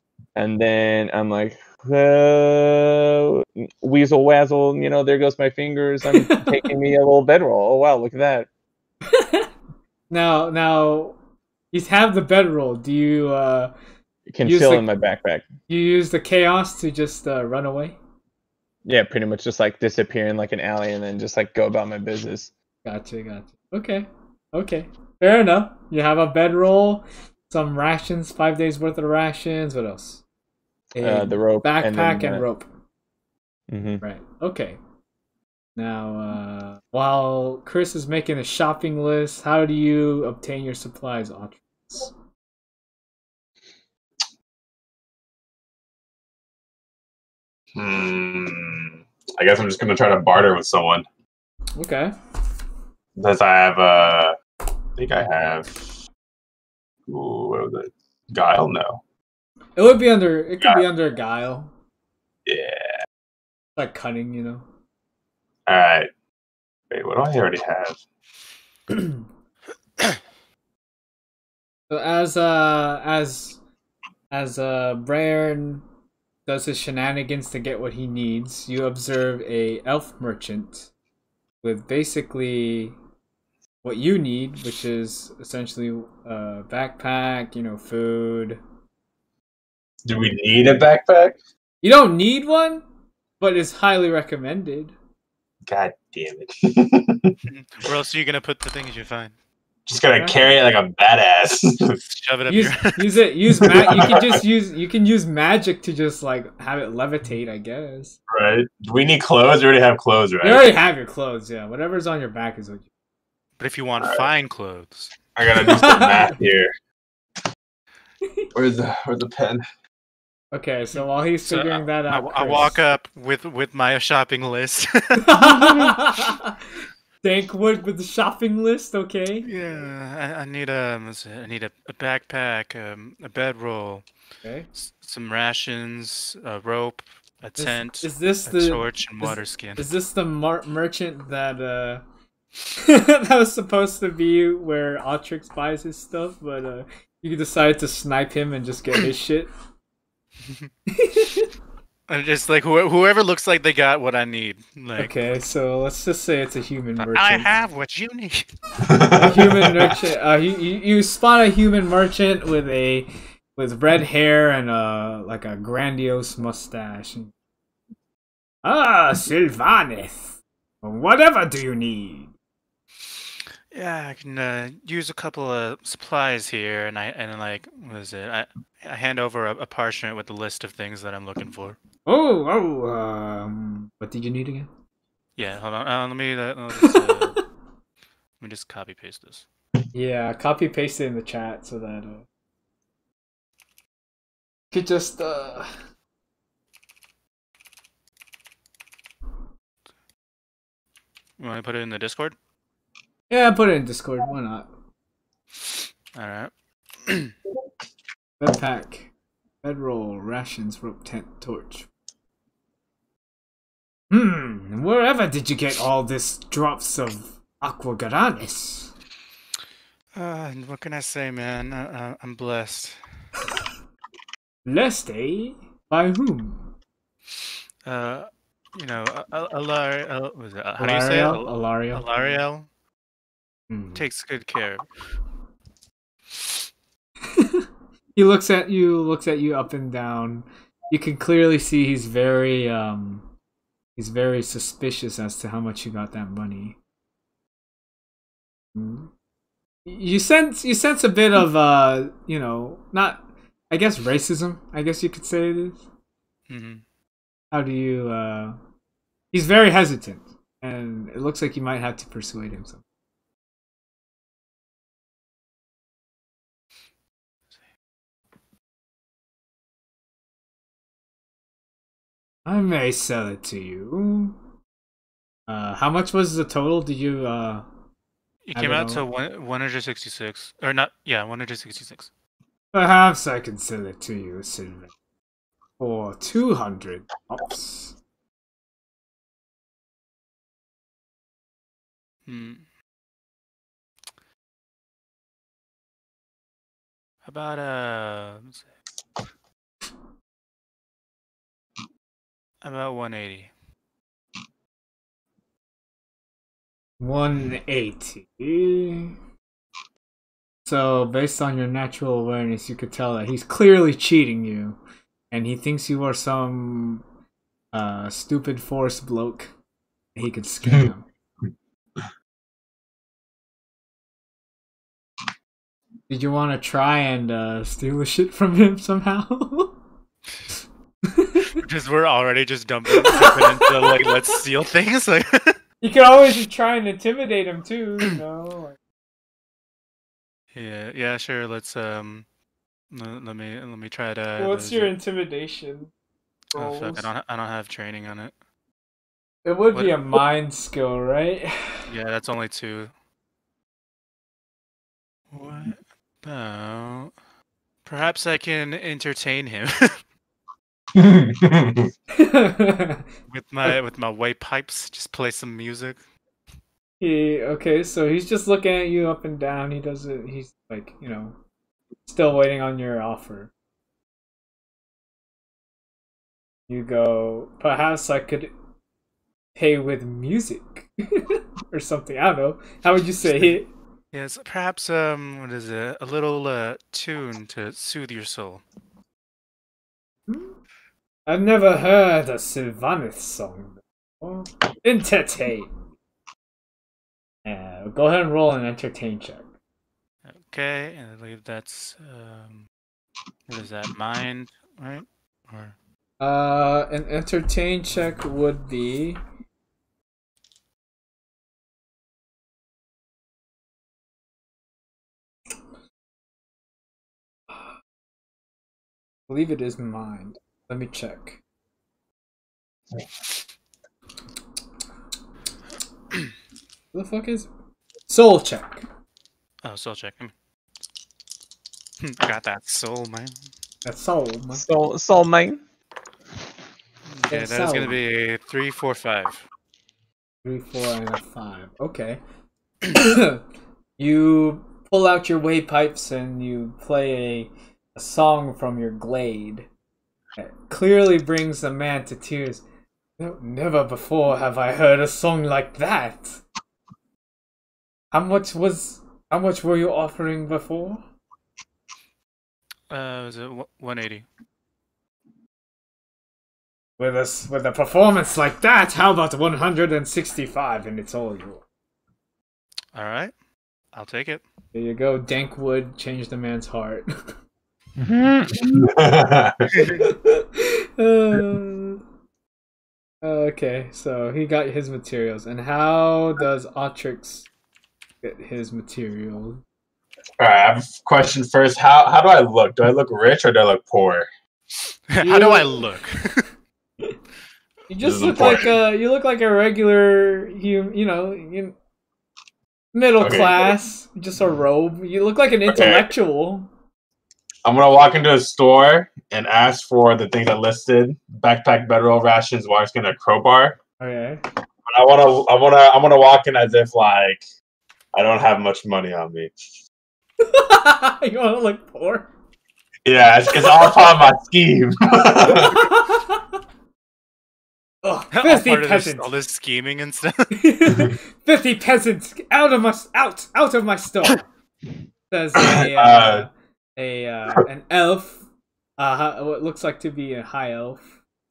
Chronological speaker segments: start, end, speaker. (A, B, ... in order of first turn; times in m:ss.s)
0:00.4-0:08.5 A
0:06.1-0:06.6 B
0:09.1-0:09.5 B
0:10.1-0:11.2 B
0:11.7-0:13.7 B
0:14.3-0:15.4 A
0:14.4-0:14.9 B
0:15.7-0:18.0 B
0:18.8-0:22.5 A
0:22.8-0:30.2 B
0:31.0-0:32.7 B
0:31.0-0:32.4 A
0:33.7-0:34.0 A
0:34.0-0:34.8 B
0:35.8-0:42.1 B
0:47.8-0:51.0 C
0:51.8-0:52.1 B
0:53.2-0:54.3 C
0:55.0-0:55.8 C
0:57.1-0:59.0 C
0:59.8-1:01.7 B
1:02.4-1:02.9 C
1:03.8-1:04.6 B
1:05.7-1:06.1 C
1:06.9-1:08.0 C
1:11.9-1:13.6 B
1:14.3-1:15.8 B
1:16.4-1:20.9 B
1:21.6-1:23.0 B
1:23.8-1:28.6 B
1:30.0-1:31.4 C
1:31.8-1:32.8 B
1:33.4-1:35.0 B
1:35.7-1:37.4 C
1:37.5-1:39.3 D
1:39.9-1:42.0 C
1:40.2-1:40.5 B
1:42.0-1:43.2 D
1:42.5-1:48.2 B
1:43.7-1:44.3 C
1:48.3-1:50.7 C
1:50.4-1:52.9 B
1:53.6-1:55.1 D
1:54.0-1:54.3 C
1:55.3-1:56.7 C
1:55.6-1:56.3 B
1:58.5-1:59.6 C
2:00.5-2:02.8 B
2:01.5-2:05.9 D
2:05.2-2:06.6 B
2:07.2-2:09.5 B
2:09.4-2:14.0 D
2:14.4-2:14.7 B
2:14.7-2:19.9 D
2:17.6-2:22.0 B
2:22.8-2:29.5 B
2:30.9-2:31.5 B
2:32.1-2:35.1 D
2:35.0-2:37.5 B
2:37.0-2:38.5 D
2:38.8-2:39.9 C
2:39.1-2:47.3 B
2:48.6-2:52.3 B
2:53.7-3:01.8 D
3:02.0-3:04.7 B
3:05.4-3:07.4 D
3:06.8-3:07.4 B
3:08.4-3:09.4 D
3:09.9-3:12.3 B
3:14.7-3:15.7 B
3:21.4-3:22.4 D
3:23.3-3:24.7 B
3:26.1-3:26.5 D
3:27.0-3:27.3 D
3:28.4-3:29.1 B
3:29.6-3:31.9 B
3:34.1-3:38.9 B
3:40.1-3:43.0 D
3:44.6-3:46.7 B
3:47.8-3:52.7 D
3:50.8-3:52.0 B
3:53.7-3:54.0 B
3:54.0-3:54.9 D
3:57.3-4:03.3 B
4:04.0-4:06.8 B
4:08.7-4:09.1 B
4:09.9-4:15.9 B
4:16.5-4:16.8 D
4:17.5-4:18.6 B
4:19.3-4:22.8 B
4:32.4-4:34.3 B
4:35.5-4:37.6 B
4:38.5-4:42.1 D
4:38.6-4:39.0 B
4:42.7-4:44.9 B
4:45.8-4:48.0 B
4:52.3-4:52.6 D
4:57.2-4:58.6 D
5:02.6-5:03.5 D
5:07.0-5:09.1 B
5:10.6-5:14.8 B
5:15.3-5:17.0 B
5:17.7-5:19.5 B
5:20.1-5:21.0 B
5:26.1-5:29.7 B
5:31.0-5:31.6 B
5:31.6-5:35.6 D
5:32.9-5:34.2 B
5:35.8-5:38.8 B
5:40.5-5:42.2 D
5:42.9-5:44.9 D
5:44.4-5:45.9 B
5:46.5-5:47.1 B
5:46.5-5:48.3 D
5:49.4-5:51.8 B
5:49.7-5:50.2 D
5:51.9-5:52.9 D
5:55.3-5:57.1 D
5:57.8-6:00.0 D
6:01.0-6:01.9 C
6:02.1-6:03.0 B
6:03.3-6:06.0 D
6:07.0-6:11.4 B
6:12.0-6:13.5 B
6:16.7-6:18.5 B
6:19.6-6:23.7 B
6:24.1-6:28.6 D
6:31.3-6:35.7 B
6:37.4-6:39.5 B
6:40.3-6:42.7 D
6:43.5-6:45.7 D
6:46.2-6:49.2 B
6:59.3-7:01.4 B
7:06.9-7:07.5 B
7:08.1-7:08.9 B
7:09.6-7:10.3 D
7:12.0-7:13.4 D
7:13.8-7:14.6 B
7:14.6-7:15.6 A
7:17.1-7:19.4 D
7:17.3-7:18.0 B
7:20.4-7:22.2 B
7:22.9-7:23.4 B
7:24.0-7:29.7 B
7:30.4-7:32.6 B
7:33.2-7:36.4 B
7:38.1-7:41.0 B
7:42.9-7:44.3 D
7:47.0-7:51.6 B
7:52.9-7:53.3 D
7:53.9-7:54.4 D
7:54.7-7:57.1 B
7:58.0-7:58.9 A
7:58.7-7:59.9 C
7:59.7-8:00.0 A
7:59.9-8:02.0 B
8:03.2-8:07.5 B
8:08.2-8:09.6 B
8:10.4-8:14.3 C
8:15.1-8:16.4 D
8:15.2-8:15.9 B
8:17.9-8:21.7 B
8:18.0-8:18.7 C
8:22.9-8:26.7 B
8:23.2-8:23.7 C
8:25.7-8:26.1 C
8:27.6-8:33.8 C
8:34.0-8:34.4 B
8:34.9-8:37.4 C
8:38.1-8:39.5 C
8:40.4-8:42.3 B
8:43.0-8:45.9 C
8:43.6-8:44.0 B
8:45.4-8:46.6 B
8:48.0-8:49.3 B
8:48.3-8:50.6 D
8:50.5-8:54.4 B
8:55.3-8:58.4 B
8:55.6-8:56.5 C
8:59.0-9:01.0 B